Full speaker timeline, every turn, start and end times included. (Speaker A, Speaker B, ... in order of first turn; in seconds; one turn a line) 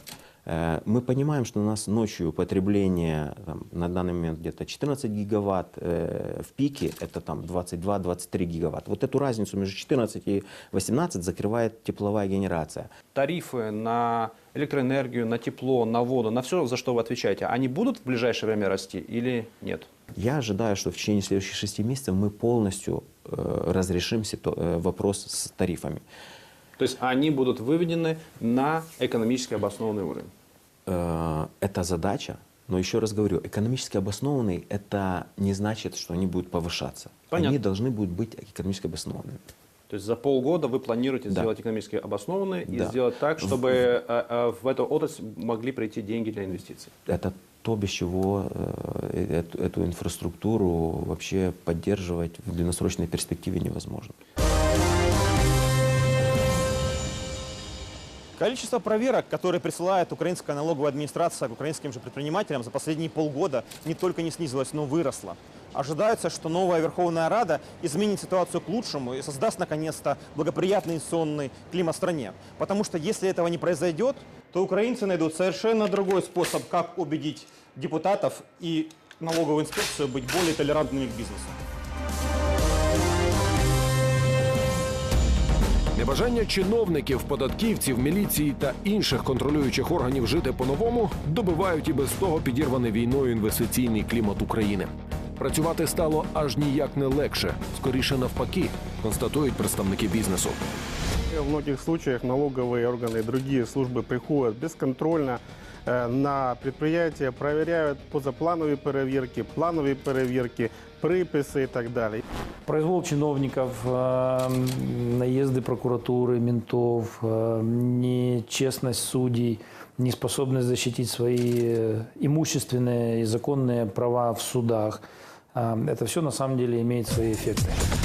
Speaker A: 0.5-12.9
Speaker B: 13.1-19.9
Speaker A: 20.1-26.0
Speaker B: 26.8-30.3
Speaker A: 30.9-39.4
Speaker B: 37.3-37.6
Speaker B: 39.9-46.9
Speaker A: 42.7-43.7
Speaker A: 47.0-54.1
Speaker C: 58.4-81.6
Speaker D: 85.9-100.6
Speaker E: 101.3-112.2
Speaker F: 112.7-127.8